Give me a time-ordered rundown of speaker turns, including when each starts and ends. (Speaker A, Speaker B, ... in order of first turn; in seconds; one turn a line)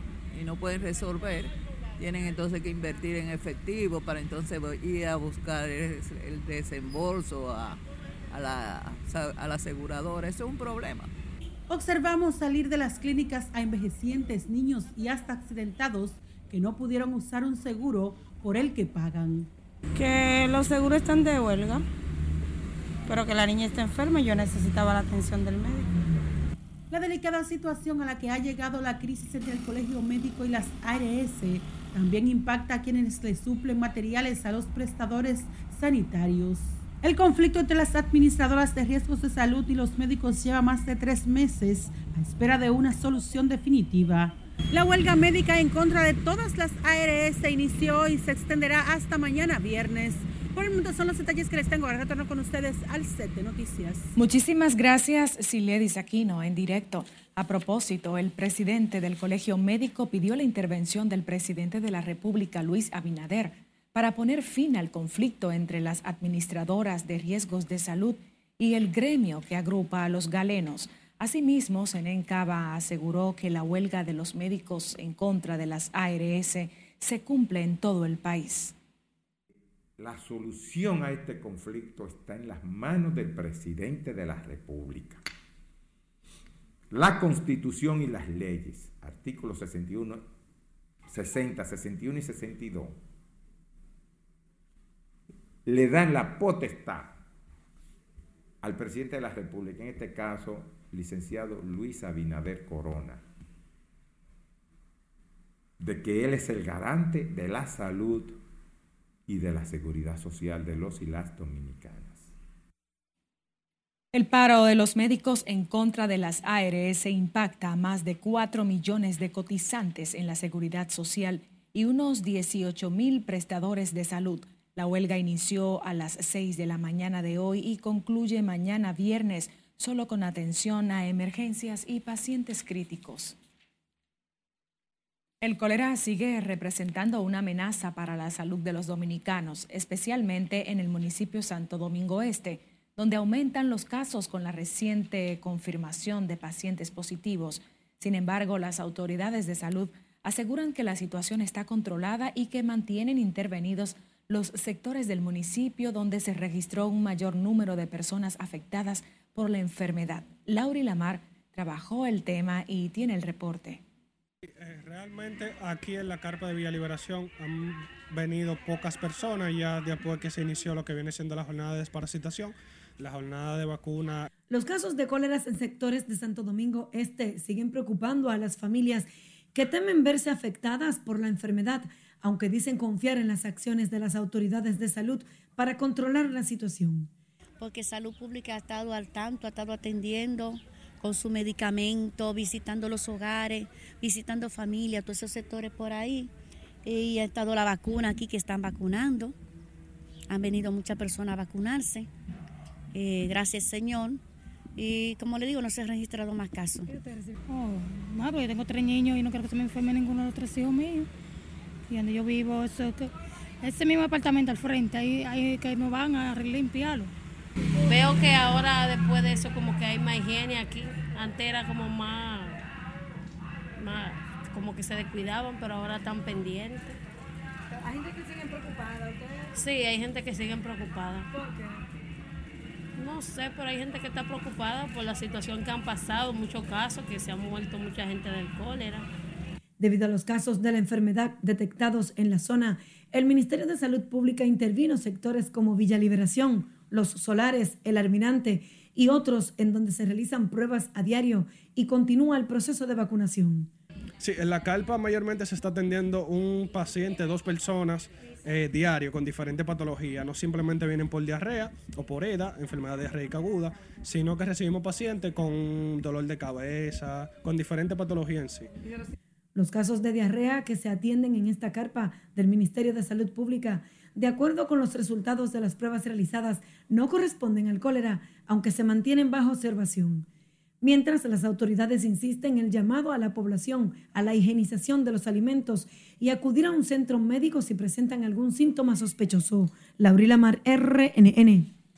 Speaker A: 0.3-11.1
Speaker B: 11.7-19.5
Speaker C: 20.0-21.9
Speaker C: 23.1-25.9
Speaker B: 26.9-54.1
Speaker D: 54.1-78.8
Speaker E: 80.0-85.2
Speaker E: 86.9-90.2
Speaker E: 91.1-93.0
Speaker E: 95.7-97.2
Speaker E: 98.6-103.2
Speaker E: 105.8-108.4
Speaker E: 109.3-112.3
Speaker D: 114.1-133.3
Speaker D: 135.4-163.8
Speaker F: 164.6-174.3
Speaker G: 174.5-187.1
Speaker H: 187.6-196.3
Speaker H: 196.8-199.3
Speaker H: 200.3-202.1
Speaker H: 202.9-204.2
Speaker H: 204.8-206.9
Speaker I: 207.5-211.1
Speaker I: 211.9-213.1
Speaker I: 213.6-217.1
Speaker J: 217.9-222.6
Speaker J: 223.8-227.0
Speaker J: 229.5-231.3
Speaker J: 233.0-239.1
Speaker G: 239.8-253.7
Speaker F: 254.2-268.7
Speaker G: 269.6-280.3
Speaker G: 280.8-291.7